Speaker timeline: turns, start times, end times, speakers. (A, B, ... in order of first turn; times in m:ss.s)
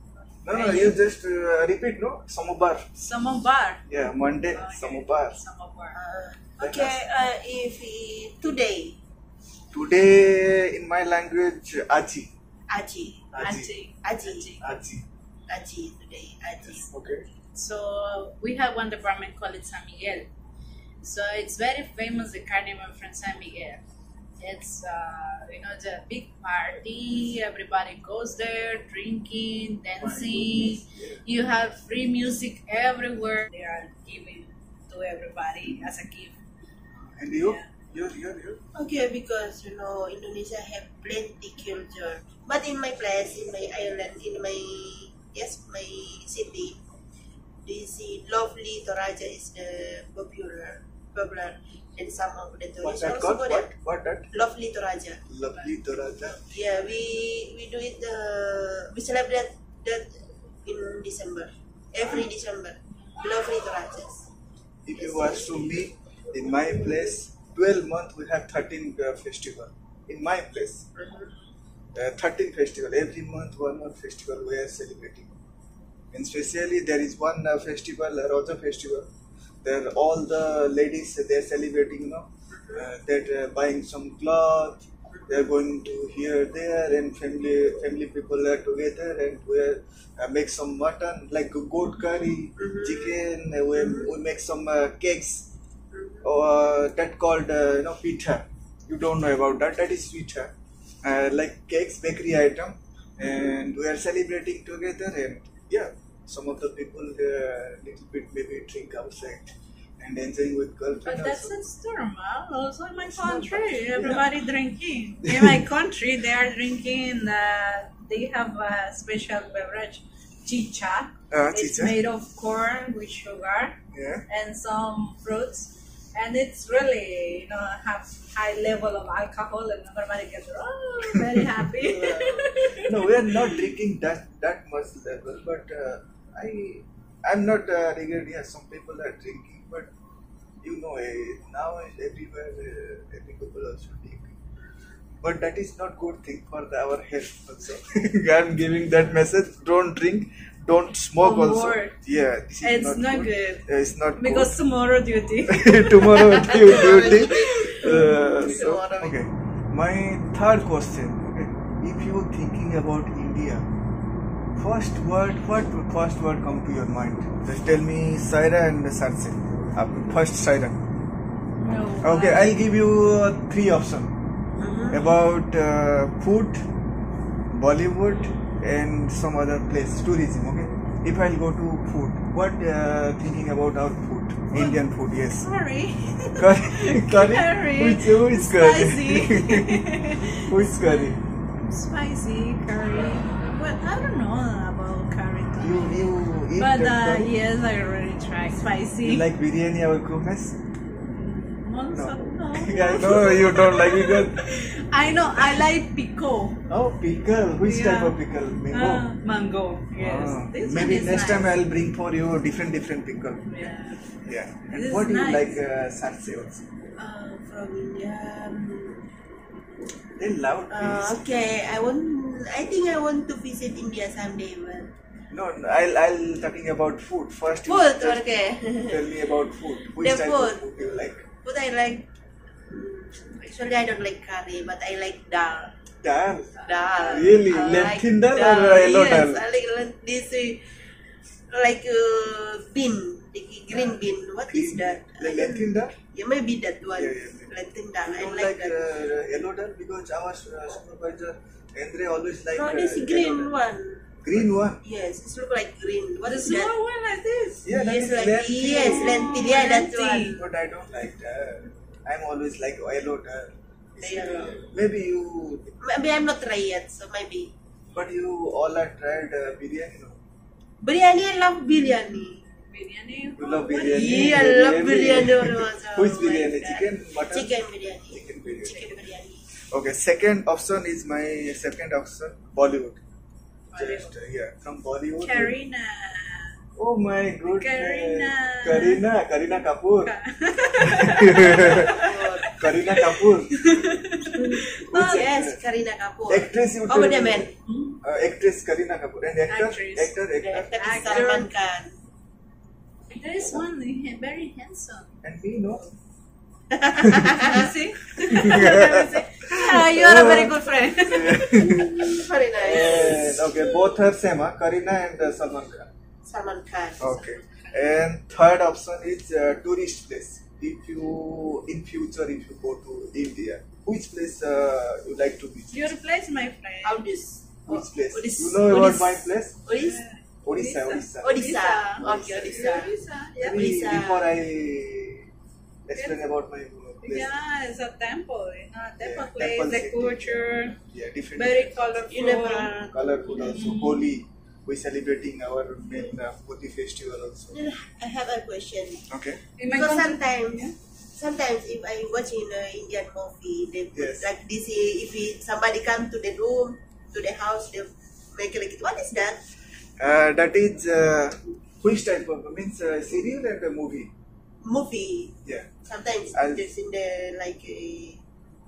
0:00.4-0:02.9 A
0:00.5-0:01.0 B
0:03.0-0:03.8 B
0:03.9-0:05.4 A
0:04.5-0:06.0 B
0:05.9-0:09.0 C
0:06.6-0:07.0 A
0:09.7-0:12.3 A
0:12.7-0:13.3 C
0:13.3-0:13.7 A
0:13.4-0:14.6 B
0:14.0-0:14.5 C
0:14.6-0:15.0 A
0:15.5-0:16.9 C
0:16.6-0:17.2 A
0:17.5-0:20.3 B
0:21.0-0:23.8 B
0:24.4-0:36.4 B
0:30.0-0:31.2 A
0:36.9-0:38.6 A
0:38.7-0:46.8 C
0:47.6-0:53.7 C
0:52.8-0:54.3 A
0:54.3-0:55.2 C
0:55.3-0:56.4 A
0:56.4-1:04.3 C
1:04.8-1:10.9 A
1:05.0-1:05.7 C
1:10.9-1:11.3 C
1:11.9-1:15.3 A
1:16.1-1:19.1 A
1:19.6-1:35.5 A
1:22.5-1:22.8 C
1:32.6-1:33.1 C
1:33.8-1:34.1 C
1:35.9-1:36.2 C
1:36.2-1:40.5 A
1:41.0-1:51.6 A
1:51.0-2:03.8 B
1:53.1-1:54.2 A
1:55.2-1:55.5 A
2:01.3-2:02.0 A
2:03.9-2:04.2 A
2:04.3-2:13.5 B
2:11.8-2:12.5 C
2:12.8-2:19.9 A
2:20.6-2:24.4 A
2:25.2-2:34.6 A
2:31.2-2:32.0 B
2:32.6-2:33.6 B
2:34.2-2:38.7 B
2:35.5-2:43.7 A
2:36.2-2:39.2 C
2:44.6-2:50.8 A
2:51.6-2:52.5 B
2:52.0-2:54.1 A
2:54.6-2:55.0 C
2:54.9-2:56.6 A
2:57.5-3:05.4 A
3:04.5-3:19.2 B
3:06.3-3:11.2 A
3:15.6-3:17.3 A
3:19.0-3:20.6 A
3:21.1-3:26.6 B
3:21.9-3:24.7 A
3:26.7-3:29.1 A
3:27.6-3:28.2 B
3:28.7-3:31.5 B
3:30.0-3:33.5 A
3:33.5-3:34.0 B
3:34.2-3:36.6 A
3:34.7-3:35.6 B
3:37.0-3:39.0 C
3:40.2-3:41.2 A
3:40.7-3:44.9 C
3:45.3-3:48.2 A
3:47.6-3:49.0 C
3:48.9-3:51.3 A
3:50.0-3:50.6 C
3:51.3-3:52.1 C
3:52.6-3:55.7 C
3:56.0-3:59.4 A
3:56.6-4:00.6 C
3:57.0-3:57.3 B
4:01.5-4:08.8 C
4:04.5-4:06.0 A
4:06.9-4:13.5 A
4:12.5-4:14.1 C
4:14.2-4:14.8 A
4:14.7-4:16.7 C
4:16.2-4:17.7 B
4:17.6-4:19.4 A
4:17.7-4:20.4 C
4:18.6-4:20.4 B
4:20.3-4:25.7 A
4:24.0-4:24.6 C
4:25.8-4:27.5 C
4:27.9-4:30.2 A
4:30.8-4:32.4 C
4:32.7-4:34.8 B
4:33.4-4:37.5 A
4:33.8-4:39.4 C
4:38.1-4:38.8 A
4:39.7-4:43.0 A
4:43.7-4:44.1 B
4:43.7-4:45.5 A
4:45.2-4:46.6 B
4:46.8-4:50.1 A
4:47.4-4:49.0 B
4:50.0-4:55.3 B
4:50.8-4:53.6 A
4:51.6-4:52.5 C
4:54.4-4:57.5 C
4:54.9-4:55.6 A
4:56.3-5:01.2 A
4:57.6-4:58.0 B
4:59.5-5:01.5 B
5:00.4-5:02.0 C
5:03.1-5:05.1 B
5:05.2-5:05.9 A
5:06.7-5:07.7 C
5:07.0-5:07.3 A
5:07.2-5:12.2 B
5:08.2-5:15.9 A
5:11.9-5:13.4 C
5:16.2-5:17.3 C
5:17.0-5:25.9 A
5:25.7-5:27.0 B
5:26.8-5:30.0 C
5:27.6-5:29.6 A
5:29.7-5:33.9 B
5:30.4-5:31.4 A
5:31.2-5:34.3 C
5:32.0-5:32.8 A
5:33.4-5:35.3 A
5:35.9-5:37.3 A
5:36.0-5:36.2 B
5:37.0-5:40.8 B
5:39.0-5:41.7 A
5:41.4-5:42.8 B
5:42.1-5:43.1 C
5:42.9-5:47.6 A
5:43.3-5:44.1 B
5:47.5-5:49.1 C
5:49.1-5:49.4 A
5:49.6-5:50.7 B
5:49.7-5:59.4 C
5:53.9-5:54.3 A
6:00.0-6:04.1 A
6:04.6-6:08.2 C
6:06.3-6:06.7 A